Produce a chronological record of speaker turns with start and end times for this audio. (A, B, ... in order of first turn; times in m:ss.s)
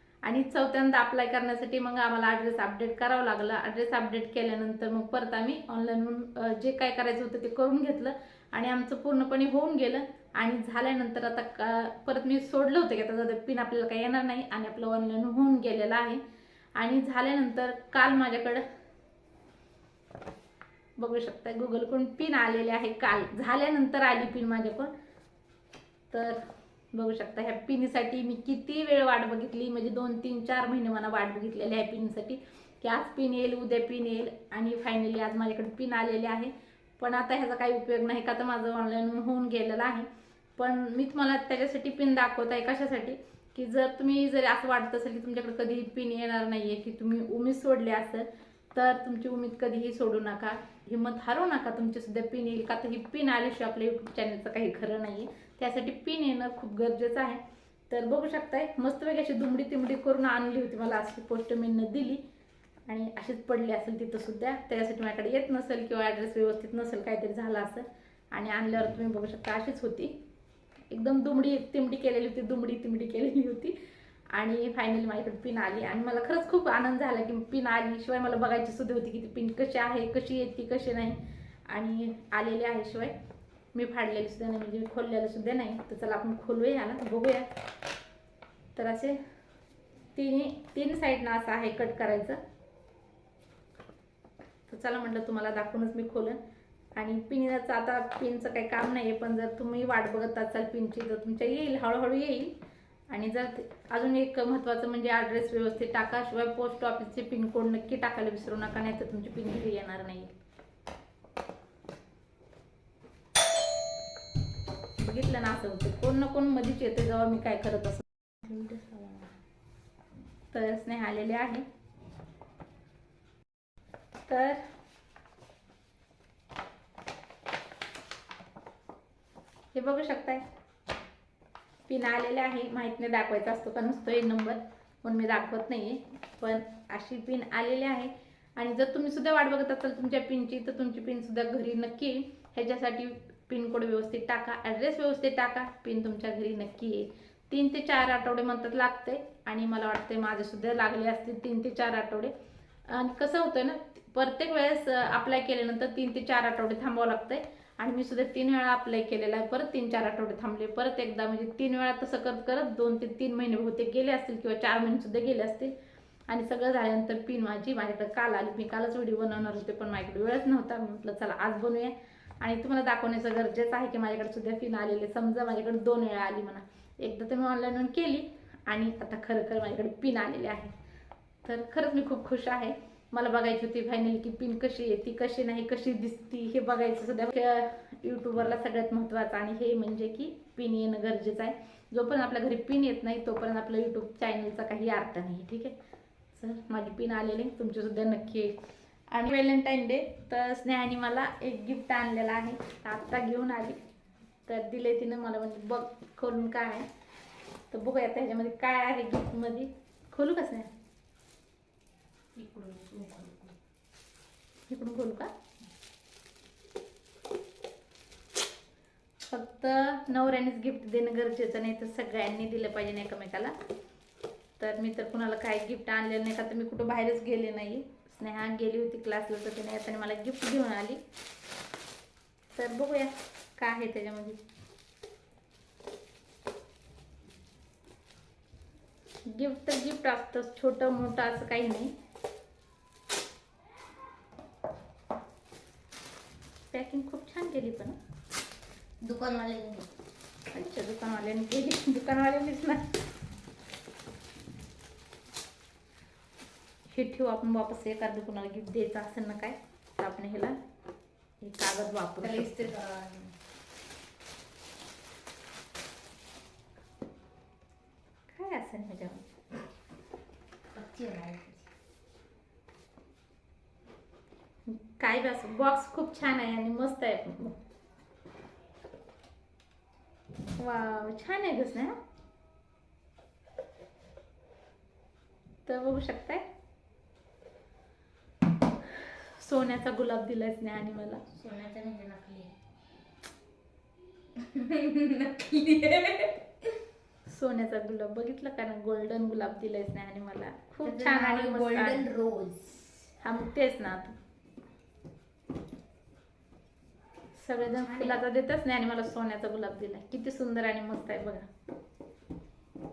0:00.2-0:16.2 A
0:16.8-0:18.6 A
0:21.0-0:24.9 A
0:26.1-0:26.4 A
0:26.9-1:02.2 A
1:02.9-1:10.2 A
1:10.9-1:13.7 A
1:14.3-1:23.1 A
1:23.7-1:27.5 A
1:28.8-1:29.2 A
1:30.1-1:32.4 A
1:34.7-1:36.4 A
1:37.0-1:42.5 A
1:43.1-1:50.3 A
1:55.0-1:59.1 A
1:58.4-1:58.9 B
2:00.5-2:01.6 A
2:04.3-2:04.6 A
2:09.7-2:10.4 A
2:11.9-2:32.3 A
2:32.9-2:45.7 A
2:46.3-3:00.7 A
3:01.4-3:15.8 A
3:16.3-3:18.6 A
3:19.1-3:23.8 A
3:24.5-3:26.9 A
3:27.7-3:30.7 A
3:32.3-3:33.5 B
3:34.7-3:35.3 A
3:39.3-3:43.5 A
3:44.6-3:51.0 A
3:52.5-3:54.4 A
3:59.3-4:01.9 A
4:06.7-4:08.0 A
4:09.0-4:09.9 B
4:10.5-4:12.9 A
4:16.9-4:20.6 A
4:21.4-4:22.5 A
4:22.2-4:23.3 B
4:28.3-4:29.3 A
4:30.7-4:31.6 B
4:34.6-4:37.6 A
4:40.6-4:42.0 A
4:45.7-4:46.4 A
4:48.9-4:51.2 A
4:51.3-4:52.5 B
4:54.4-4:56.4 B
4:57.2-5:02.1 A
5:00.8-5:03.1 B
5:03.2-5:04.2 A
5:07.3-5:11.5 A
5:07.8-5:08.2 B